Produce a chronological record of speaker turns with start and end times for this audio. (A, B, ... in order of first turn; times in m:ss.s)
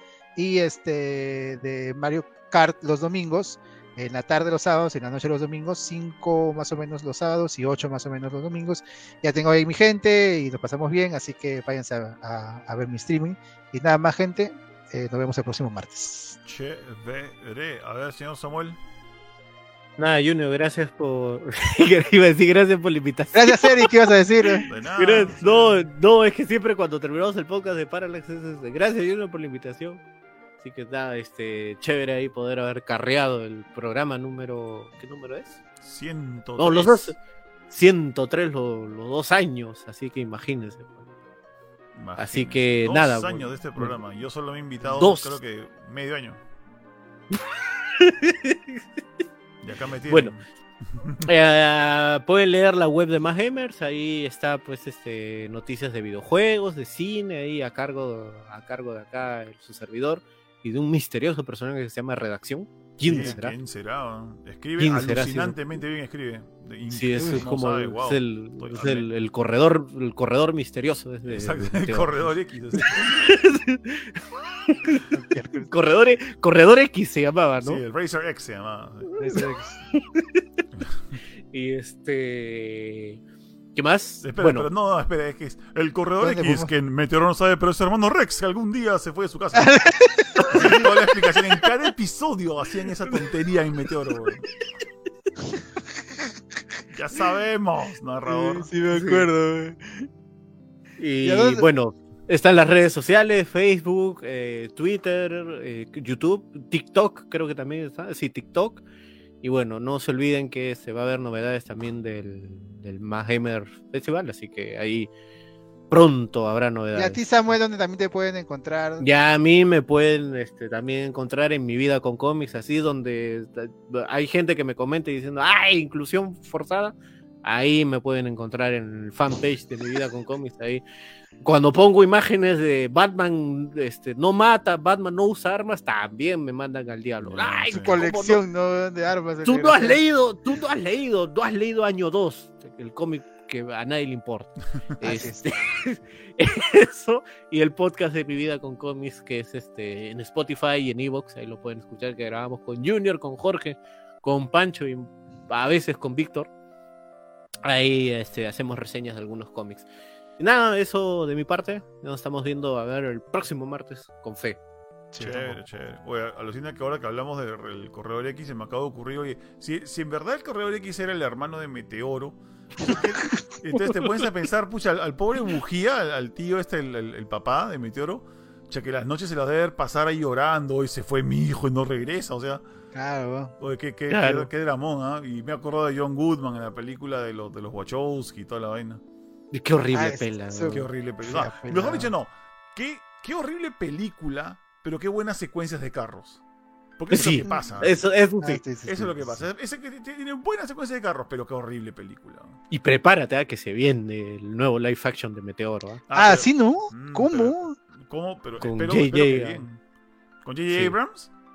0:00.4-0:16.4 A
0:16.4-0:18.8 B
0:20.0-0:30.0 C
0:23.3-0:24.6 A
0:24.7-0:25.9 B
0:30.6-0:35.6 C
0:35.8-0:37.1 B
0:36.6-0:37.2 C
0:37.7-0:41.1 C
0:42.0-0:46.4 B
0:42.2-0:44.0 C
0:44.9-0:45.4 C
0:47.3-0:48.8 C
0:49.6-0:50.4 B
0:50.1-0:50.3 C
0:51.0-0:51.3 B
0:51.2-1:03.6 C
1:03.0-1:09.1 B
1:04.8-1:05.6 C
1:06.9-1:17.8 C
1:11.3-1:13.3 B
1:15.1-1:15.7 A
1:17.6-1:19.1 B
1:19.1-1:20.6 C
1:19.2-1:19.8 A
1:21.5-1:23.2 C
1:23.8-1:24.7 C
1:24.2-1:29.8 B
1:26.2-1:26.7 A
1:29.5-1:30.9 A
1:30.4-1:34.5 B
1:36.9-1:38.7 B
1:38.3-1:39.9 A
1:38.9-1:39.3 C
1:41.0-1:48.8 C
1:41.2-1:41.6 A
1:49.4-1:55.1 C
1:55.9-1:57.2 C
1:56.9-1:59.1 A
1:59.0-2:10.8 C
2:11.4-2:18.4 C
2:17.2-2:18.0 B
2:17.8-2:20.0 A
2:19.4-2:36.5 C
2:25.0-2:25.5 A
2:37.6-2:39.9 C
2:40.4-2:44.6 C
2:45.1-2:45.6 A
2:45.2-2:52.4 B
2:52.8-2:53.4 A
2:53.6-3:02.6 B
3:02.9-3:03.5 A
3:03.6-3:09.0 B
3:04.1-3:04.5 C
3:09.5-3:10.9 C
3:09.9-3:12.1 A
3:10.7-3:16.4 B
3:17.0-3:18.0 B
3:17.1-3:18.6 C
3:18.4-3:19.4 A
3:18.8-3:22.6 B
3:22.7-3:26.0 C
3:26.1-3:29.8 B
3:26.2-3:27.8 A
3:28.6-3:29.6 C
3:30.4-3:31.3 B
3:30.7-3:31.0 C